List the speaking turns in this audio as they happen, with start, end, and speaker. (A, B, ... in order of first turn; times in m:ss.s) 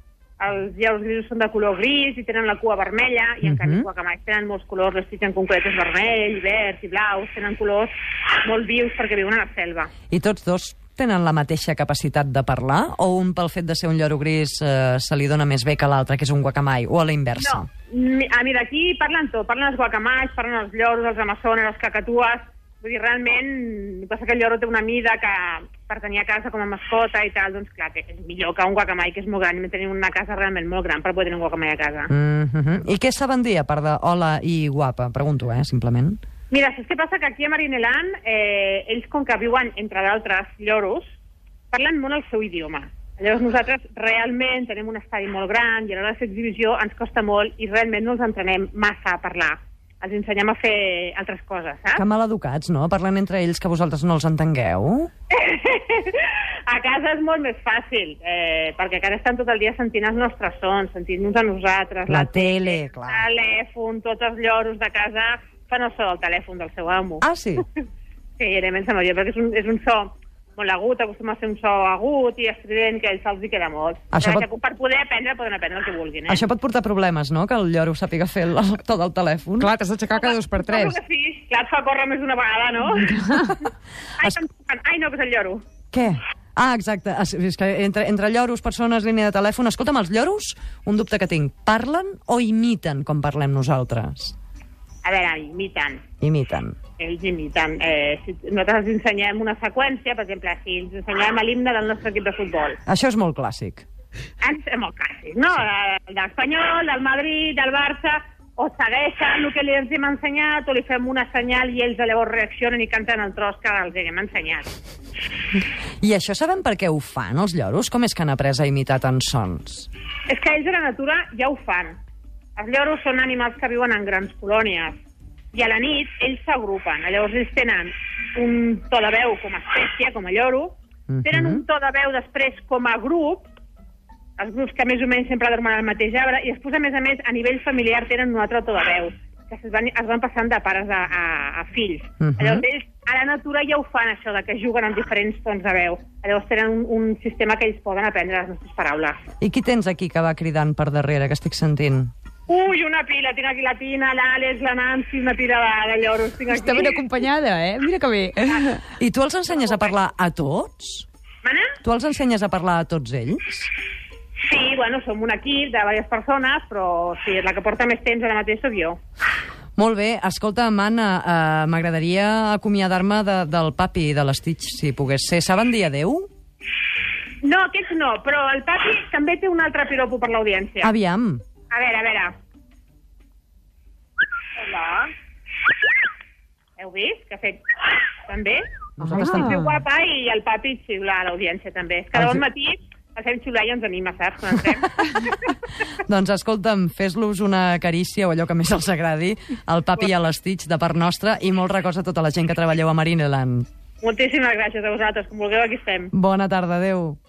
0:00.4-0:09.9 A
0:03.4-0:03.9 B
0:10.1-0:17.7 B
0:17.4-0:32.1 A
0:32.1-0:36.2 B
0:36.5-0:41.2 A
0:41.7-0:52.0 A
0:51.9-0:55.1 B
0:55.3-1:07.2 A
1:02.1-1:03.2 B
1:07.2-1:07.6 B
1:08.4-1:16.5 A
1:14.1-1:14.5 B
1:16.3-1:19.7 B
1:19.6-1:21.0 C
1:20.2-1:25.6 A
1:25.9-1:34.3 B
1:35.0-1:36.0 A
1:36.2-1:36.8 B
1:37.0-1:42.8 A
1:42.8-1:43.8 B
1:44.4-1:54.7 A
1:56.0-1:59.9 B
2:00.3-2:02.0 A
2:02.6-2:04.9 A
2:05.5-2:13.5 A
2:11.1-2:11.6 B
2:14.4-2:29.2 A
2:22.2-2:22.6 B
2:29.4-2:32.1 B
2:32.5-2:37.0 A
2:36.5-2:38.8 C
2:39.0-2:41.1 B
2:39.5-2:39.9 A
2:41.4-2:41.8 A
2:41.8-2:43.7 B
2:44.4-2:49.0 A
2:49.8-2:56.3 B
2:57.4-3:00.9 A
3:00.8-3:01.4 B
3:01.7-3:02.3 A
3:04.6-3:05.1 A
3:06.8-3:15.5 A
3:09.0-3:09.6 B
3:09.1-3:09.8 C
3:12.1-3:12.4 B
3:16.0-3:23.7 B
3:24.0-3:26.1 A
3:26.1-3:27.2 B